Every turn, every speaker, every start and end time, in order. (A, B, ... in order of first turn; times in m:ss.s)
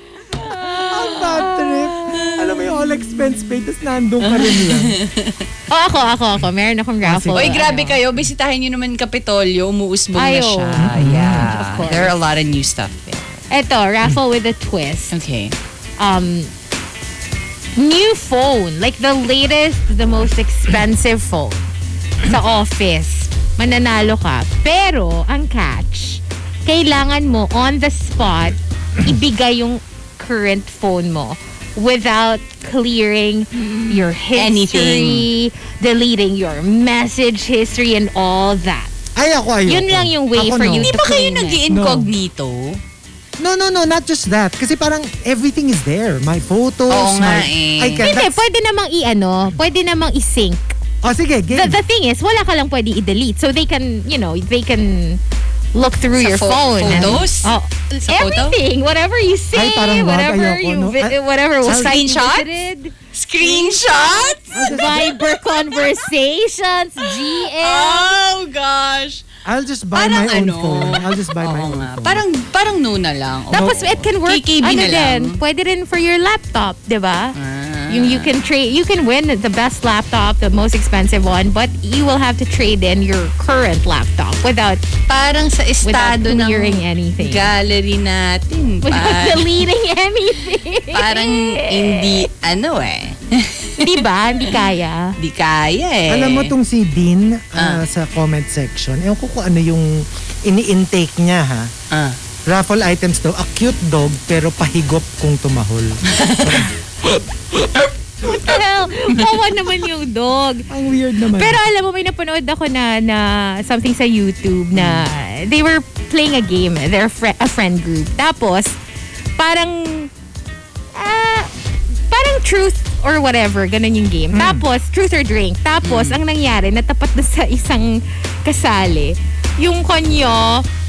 0:00.4-0:02.3 A
0:00.7-0:05.0 B
0:04.2-0:05.4 C
0:05.7-0:08.0 A
0:07.0-0:07.6 B
0:07.3-0:13.4 C
0:10.1-0:12.2 A
0:10.8-0:11.5 B
0:13.5-0:15.1 A
0:15.1-0:15.6 C
0:16.0-0:16.5 A
0:17.8-0:21.7 A
0:22.2-0:38.9 A
0:33.6-0:35.3 C
0:39.1-0:42.1 B
0:39.7-0:41.6 A
0:40.7-0:42.8 C
0:43.4-0:48.4 B
0:46.9-0:48.0 C
0:48.0-0:50.8 A
0:51.0-0:51.8 B
0:51.5-0:55.2 A
0:55.7-1:08.1 A
0:56.2-0:58.6 C
0:56.8-0:57.3 B
0:59.5-1:02.2 B
1:01.6-1:02.5 C
1:03.1-1:05.1 C
1:04.5-1:05.4 B
1:07.0-1:09.2 C
1:09.4-1:12.2 B
1:09.9-1:15.4 C
1:13.5-1:17.4 A
1:13.5-1:13.8 B
1:17.4-1:18.3 C
1:17.9-1:24.8 A
1:25.1-1:29.6 C
1:25.8-1:27.5 A
1:28.8-1:32.2 A
1:30.9-1:34.6 C
1:33.8-1:35.2 A
1:35.2-1:36.5 C
1:36.1-1:41.7 B
1:37.6-1:37.8 C
1:41.9-1:42.2 C
1:42.4-1:46.7 B
1:46.0-1:46.7 C
1:47.1-1:50.7 A
1:50.7-1:51.6 B
1:51.3-1:58.8 A
1:54.7-1:55.0 B
1:59.4-2:00.1 A
2:00.9-2:01.5 A
2:02.1-2:10.6 A
2:04.3-2:04.6 B
2:05.8-2:06.2 C